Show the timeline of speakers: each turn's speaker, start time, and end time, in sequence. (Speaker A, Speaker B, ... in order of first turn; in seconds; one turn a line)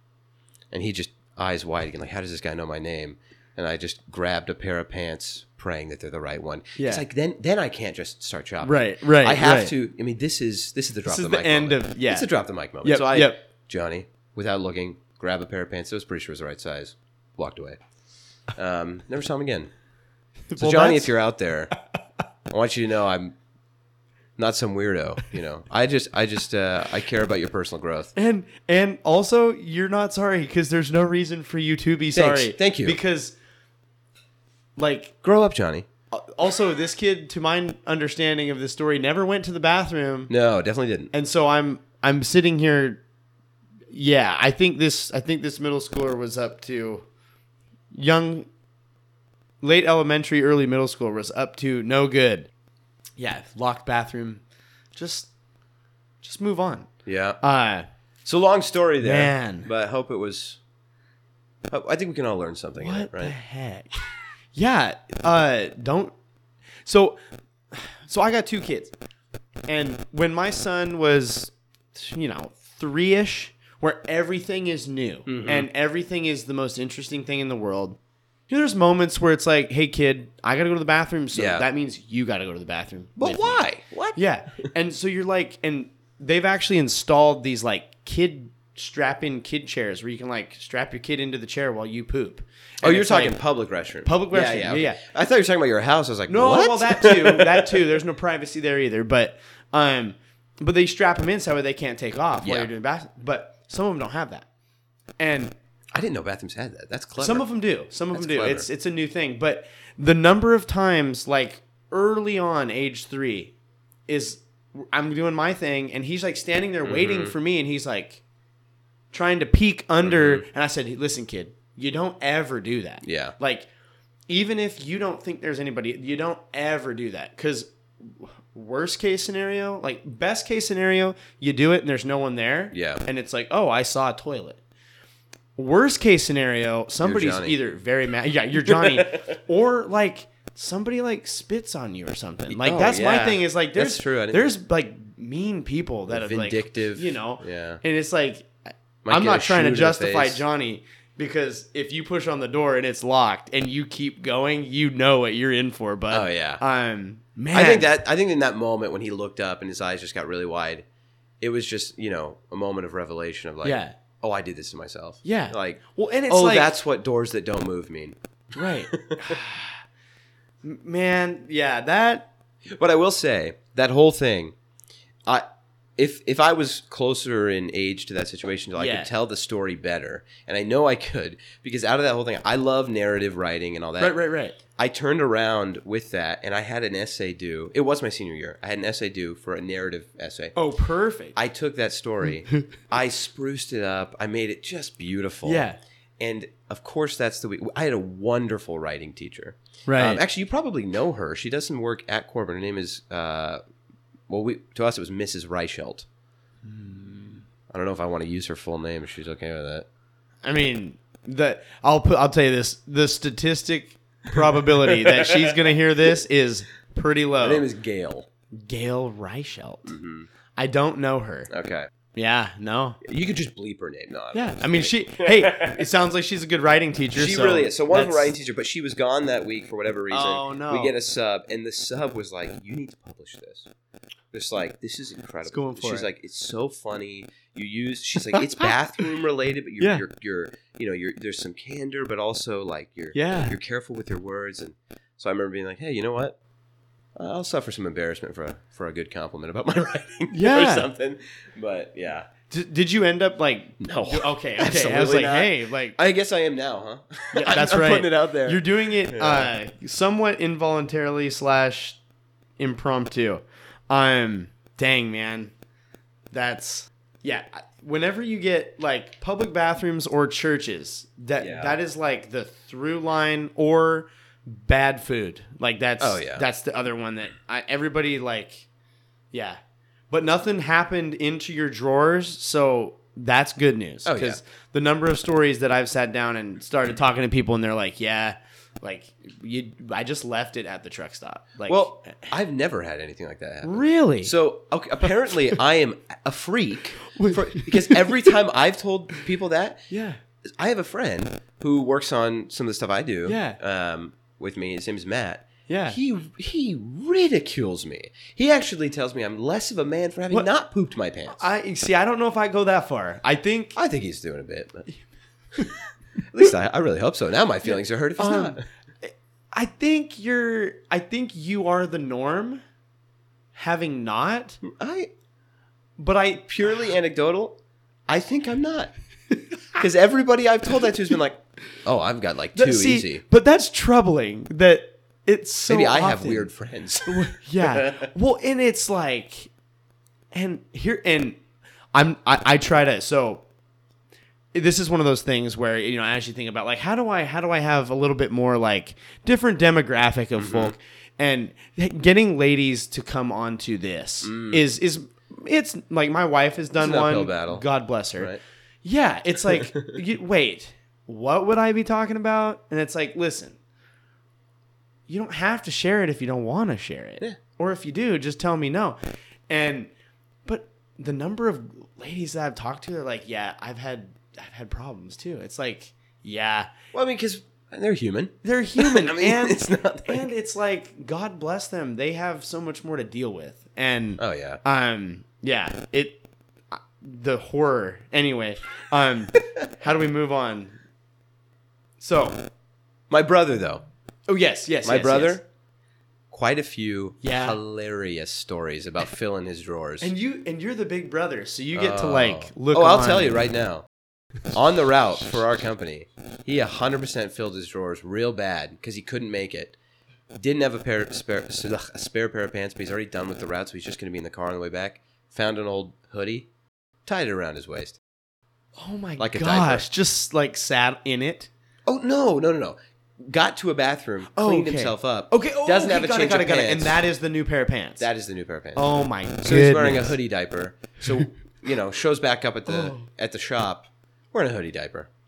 Speaker A: 0.7-17.8
Speaker B: 6.8-7.0
Speaker B: 8.6-9.7
Speaker B: 11.0-12.3
Speaker B: 12.8-13.4
Speaker A: 18.5-19.7
Speaker B: 20.5-21.1
Speaker A: 20.6-21.7
Speaker A: 22.5-23.3
Speaker A: 24.4-28.1
Speaker B: 28.1-33.3
Speaker A: 32.1-33.0
Speaker B: 34.8-35.1
Speaker A: 35.2-35.9
Speaker B: 36.1-40.3
Speaker A: 40.3-41.1
Speaker B: 41.1-43.0
Speaker B: 43.9-47.0
Speaker B: 47.9-48.5
Speaker B: 49.6-52.5
Speaker B: 53.2-54.4
Speaker B: 55.0-55.3
Speaker B: 56.2-56.9
Speaker A: 57.0-57.4
Speaker B: 57.4-57.9
Speaker A: 58.2-60.6
Speaker B: 59.0-59.7
Speaker A: 61.7-63.4
Speaker B: 62.8-63.9
Speaker B: 64.5-66.1
Speaker B: 66.8-67.2
Speaker B: 67.7-68.9
Speaker B: 69.7-78.0
Speaker A: 75.2-75.7
Speaker B: 78.5-93.3
Speaker A: 81.3-81.7
Speaker A: 83.2-84.2
Speaker A: 92.8-97.8
Speaker B: 94.0-95.0
Speaker B: 96.3-104.5
Speaker A: 102.4-102.7
Speaker B: 105.2-105.5
Speaker A: 105.9-107.5
Speaker B: 107.2-113.5
Speaker A: 108.1-108.7
Speaker B: 114.1-118.2
Speaker A: 116.8-117.3
Speaker B: 119.1-123.7
Speaker A: 120.0-120.4
Speaker A: 123.0-123.3
Speaker B: 124.3-134.6
Speaker A: 132.7-133.0
Speaker B: 135.6-157.9
Speaker A: 137.0-137.6
Speaker A: 138.7-139.3
Speaker A: 142.5-144.5
Speaker A: 146.1-147.8
Speaker A: 149.0-150.4
Speaker A: 156.1-156.6
Speaker A: 157.5-160.8
Speaker A: 161.4-168.1
Speaker B: 163.6-163.9
Speaker B: 165.2-166.7
Speaker B: 168.6-169.8
Speaker A: 168.9-169.3
Speaker B: 170.6-172.3
Speaker A: 172.8-174.5
Speaker A: 176.0-184.2
Speaker B: 178.8-179.1
Speaker B: 184.0-184.6
Speaker A: 184.8-190.5
Speaker B: 190.6-191.3
Speaker A: 191.3-195.6
Speaker B: 195.4-195.8
Speaker A: 196.2-203.6
Speaker B: 199.9-200.2
Speaker A: 204.3-206.1
Speaker B: 206.6-207.4
Speaker A: 207.7-209.8
Speaker B: 210.4-217.6
Speaker A: 214.8-215.6
Speaker A: 217.4-218.3
Speaker B: 218.5-219.9
Speaker A: 219.8-220.3
Speaker B: 220.6-221.5
Speaker A: 221.5-221.9
Speaker B: 222.1-223.0
Speaker A: 223.0-225.8
Speaker B: 224.3-228.3
Speaker A: 227.1-233.7
Speaker B: 230.1-230.9
Speaker A: 234.3-246.3
Speaker B: 235.5-236.1
Speaker B: 238.3-238.7
Speaker B: 239.8-240.0
Speaker B: 243.1-243.5
Speaker A: 247.2-252.3
Speaker B: 250.3-250.9
Speaker B: 252.5-255.9
Speaker A: 253.8-259.5
Speaker B: 257.3-262.0
Speaker B: 262.6-265.5
Speaker B: 266.3-278.6
Speaker A: 271.4-271.8
Speaker A: 276.0-276.4
Speaker B: 279.3-279.6
Speaker B: 280.1-292.1
Speaker A: 284.0-284.4
Speaker A: 291.6-299.9
Speaker B: 293.6-294.3
Speaker B: 297.1-298.3
Speaker B: 299.9-300.2
Speaker A: 300.6-311.4
Speaker B: 303.2-303.6
Speaker B: 305.7-306.0
Speaker B: 311.3-313.8
Speaker A: 313.7-314.9
Speaker A: 315.6-318.6
Speaker B: 317.7-322.6
Speaker B: 323.5-324.6
Speaker A: 324.6-325.1
Speaker B: 326.0-326.9
Speaker A: 326.5-327.6
Speaker A: 328.1-328.9
Speaker A: 329.7-333.2
Speaker B: 332.5-336.5
Speaker A: 335.7-338.1
Speaker B: 337.1-339.5
Speaker B: 340.3-341.4
Speaker B: 341.9-343.4
Speaker B: 344.5-358.3
Speaker A: 350.4-350.7
Speaker A: 354.2-354.6
Speaker A: 356.8-357.6
Speaker B: 358.8-363.6
Speaker A: 359.6-359.9
Speaker B: 365.1-369.0
Speaker B: 369.5-369.9
Speaker B: 370.4-376.7
Speaker A: 376.9-380.3
Speaker B: 378.4-390.8
Speaker A: 384.2-384.6
Speaker B: 392.0-392.4
Speaker A: 393.1-393.8
Speaker B: 394.3-395.4
Speaker A: 394.8-395.4
Speaker A: 396.3-400.1
Speaker B: 397.2-397.6
Speaker B: 400.0-403.5
Speaker A: 401.7-403.9
Speaker A: 404.5-409.8
Speaker A: 410.3-416.5
Speaker A: 417.1-418.0
Speaker B: 418.8-421.5
Speaker A: 419.2-419.8
Speaker A: 421.9-427.0
Speaker B: 424.3-428.1
Speaker A: 428.0-428.8
Speaker B: 428.8-430.1
Speaker A: 429.4-435.1
Speaker B: 432.7-433.1